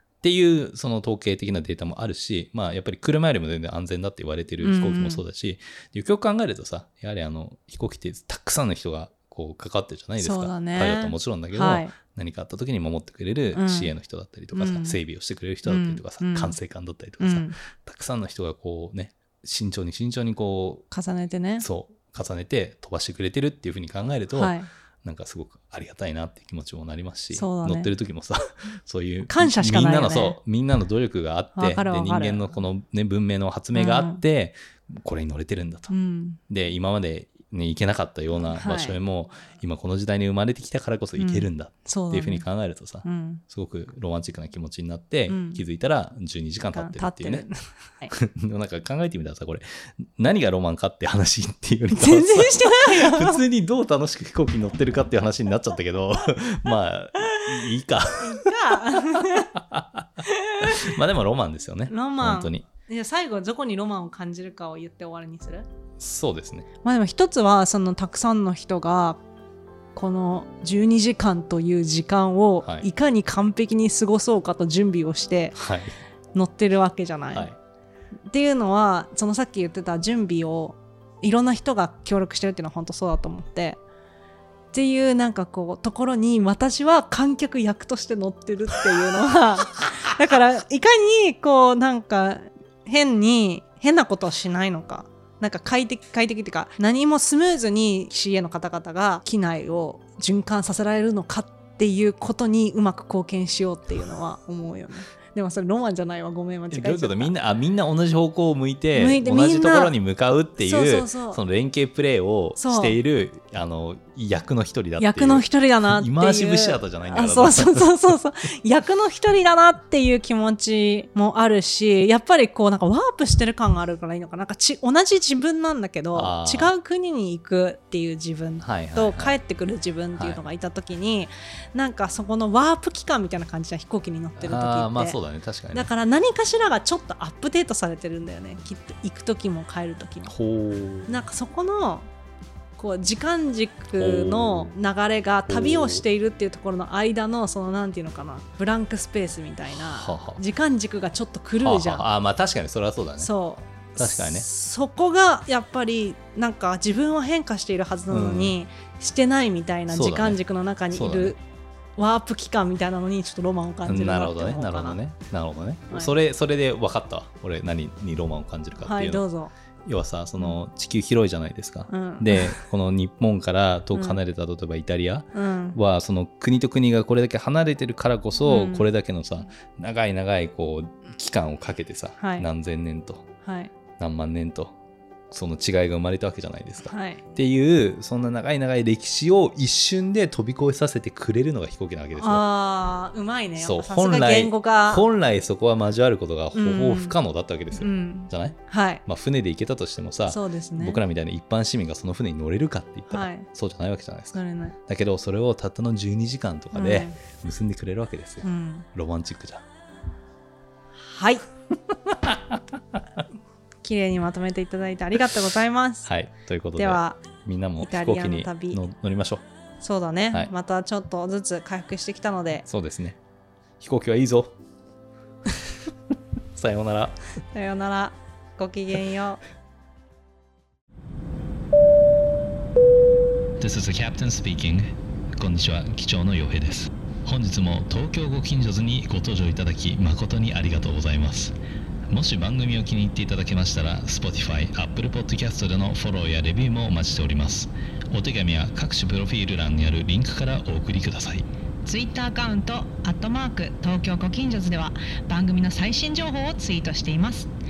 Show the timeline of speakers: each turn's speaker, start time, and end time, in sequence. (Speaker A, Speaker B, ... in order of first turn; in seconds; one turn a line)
Speaker A: 0.2-20.8
Speaker B: 4.6-5.2
Speaker B: 10.2-11.9
Speaker B: 13.5-13.9
Speaker B: 14.5-15.0
Speaker B: 15.6-16.6
Speaker B: 17.2-17.5
Speaker B: 20.9-21.6
Speaker A: 21.6-35.9
Speaker B: 24.3-24.7
Speaker B: 27.3-27.9
Speaker B: 29.3-30.4
Speaker B: 31.6-32.6
Speaker B: 33.7-34.2
Speaker B: 35.9-36.4
Speaker A: 36.5-47.5
Speaker B: 38.4-39.0
Speaker B: 41.2-42.5
Speaker B: 43.0-43.4
Speaker B: 45.3-45.6
Speaker B: 46.7-48.1
Speaker A: 48.1-62.6
Speaker B: 52.0-53.4
Speaker B: 58.2-59.5
Speaker B: 60.3-60.9
Speaker B: 61.9-65.7
Speaker A: 66.0-66.7
Speaker B: 66.8-69.2
Speaker B: 69.9-75.6
Speaker A: 75.6-76.0
Speaker B: 76.3-77.5
Speaker B: 78.3-83.8
Speaker B: 84.7-107.3
Speaker A: 106.7-118.1
Speaker B: 108.9-109.9
Speaker B: 110.6-111.4
Speaker B: 112.6-113.0
Speaker B: 115.0-135.2
Speaker A: 126.1-126.7
Speaker A: 128.6-129.3
Speaker A: 130.1-130.4
Speaker A: 134.4-135.9
Speaker B: 135.7-140.3
Speaker A: 140.3-141.1
Speaker B: 141.1-142.1
Speaker B: 142.8-152.0
Speaker A: 143.9-144.7
Speaker A: 145.5-146.0
Speaker A: 149.7-150.4
Speaker A: 151.6-153.3
Speaker B: 153.2-161.4
Speaker A: 153.9-154.4
Speaker A: 158.1-158.5
Speaker A: 159.9-160.4
Speaker A: 160.9-161.3
Speaker B: 162.0-165.0
Speaker A: 163.8-169.2
Speaker B: 168.8-169.5
Speaker A: 169.8-183.2
Speaker B: 171.9-172.6
Speaker B: 173.9-174.2
Speaker B: 175.3-175.8
Speaker B: 178.4-178.9
Speaker B: 182.2-182.4
Speaker B: 183.4-183.7
Speaker A: 184.0-184.7
Speaker A: 185.3-192.4
Speaker B: 186.8-187.2
Speaker B: 192.2-195.0
Speaker A: 193.6-209.6
Speaker B: 196.5-197.2
Speaker B: 197.7-199.0
Speaker B: 200.3-201.0
Speaker B: 203.1-203.4
Speaker B: 204.3-204.8
Speaker B: 206.7-207.1
Speaker B: 208.4-208.9
Speaker B: 211.0-211.4
Speaker A: 212.1-213.0
Speaker B: 213.8-216.1
Speaker A: 216.1-219.4
Speaker B: 216.8-217.2
Speaker B: 217.8-218.8
Speaker B: 219.8-222.7
Speaker A: 222.7-223.2
Speaker A: 223.8-224.6
Speaker A: 226.6-227.2
Speaker B: 227.5-229.4
Speaker A: 233.6-241.5
Speaker A: 242.1-251.5
Speaker C: 251.8-257.5